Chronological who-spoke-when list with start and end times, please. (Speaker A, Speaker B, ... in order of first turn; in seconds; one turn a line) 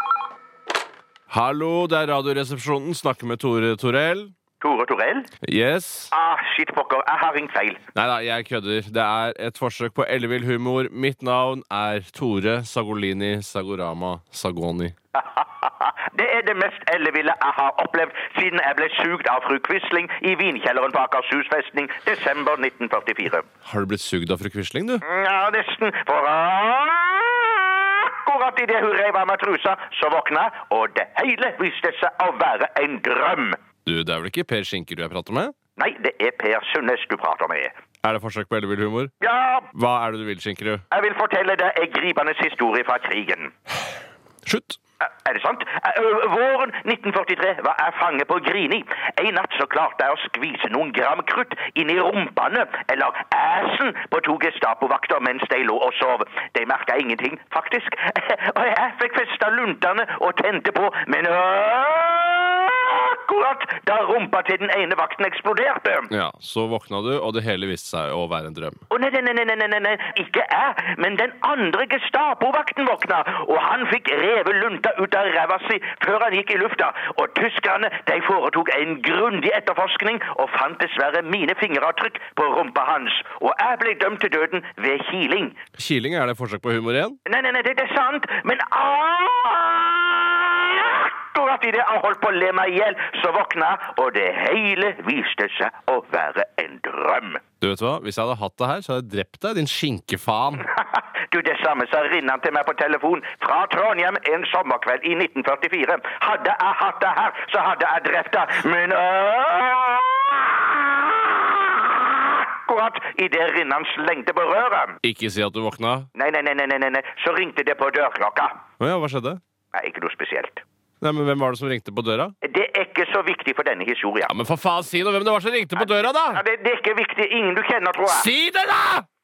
Speaker A: 1.3-4.3
Speaker B: 4.6-5.3
Speaker A: 5.4-6.1
Speaker B: 6.1-7.8
Speaker A: 8.0-14.9
Speaker B: 15.2-23.5
Speaker A: 23.6-25.0
Speaker B: 25.1-33.6
Speaker A: 33.9-35.5
Speaker B: 35.8-37.7
Speaker A: 38.0-39.1
Speaker B: 39.2-39.7
Speaker A: 39.7-40.8
Speaker B: 40.9-43.5
Speaker A: 44.5-44.8
Speaker B: 45.0-66.1
Speaker A: 66.1-68.8
Speaker B: 68.9-85.6
Speaker A: 85.8-87.2
Speaker B: 87.3-97.4
Speaker A: 97.6-100.7
Speaker B: 100.7-114.9
Speaker A: 115.0-116.1
Speaker B: 116.2-118.6
Speaker A: 118.8-119.4
Speaker B: 119.7-120.6
Speaker A: 121.0-122.3
Speaker B: 122.5-124.3
Speaker A: 124.3-126.4
Speaker B: 125.8-128.3
Speaker A: 128.1-129.1